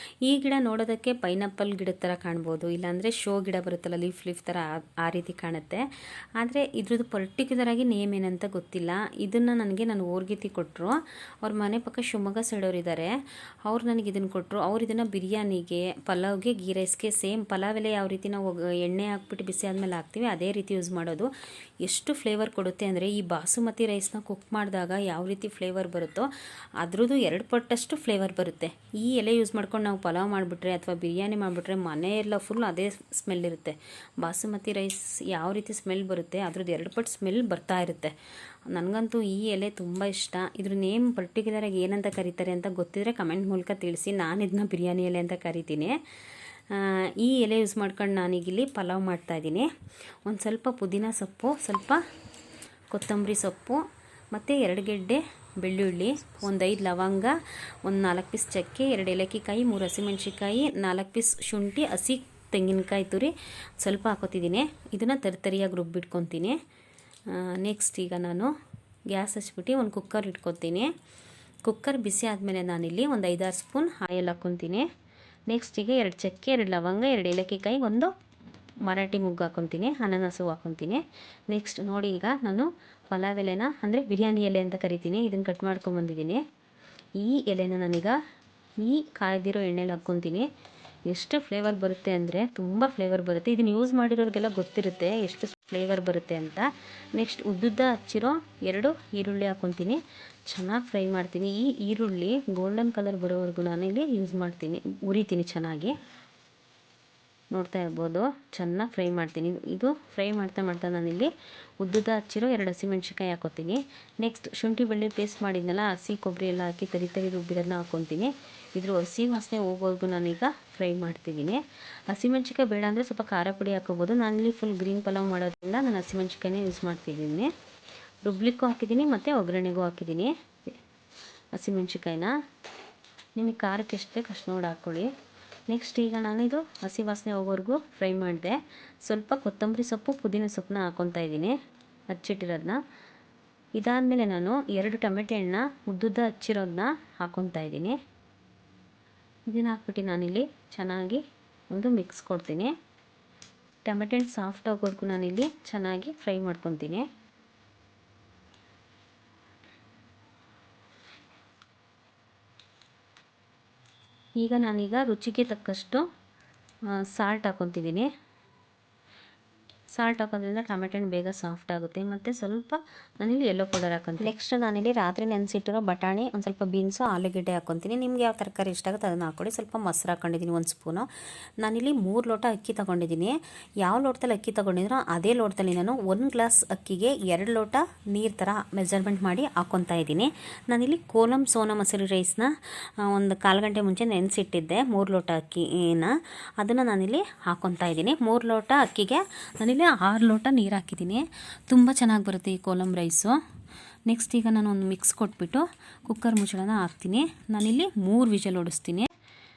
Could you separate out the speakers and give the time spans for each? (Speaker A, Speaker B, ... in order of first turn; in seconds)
Speaker A: 0.2-5.8, 6.4-13.1, 13.7-21.3, 21.8-38.1, 38.7-45.9, 46.7-49.7, 50.2-52.0, 52.9-66.6, 67.3-68.5, 69.1-70.9, 71.6-74.9, 75.5-78.1, 78.8-86.4, 87.2-88.2, 88.8-90.5, 91.1-106.0, 107.5-127.5, 128.2-130.7, 131.5-132.3, 133.3-135.1, 135.7-141.5, 142.1-142.8, 143.7-148.0, 149.5-152.7, 153.8-157.0, 164.4-166.1, 166.9-168.1, 169.9-181.1, 181.6-192.5, 193.0-203.3, 204.1-209.1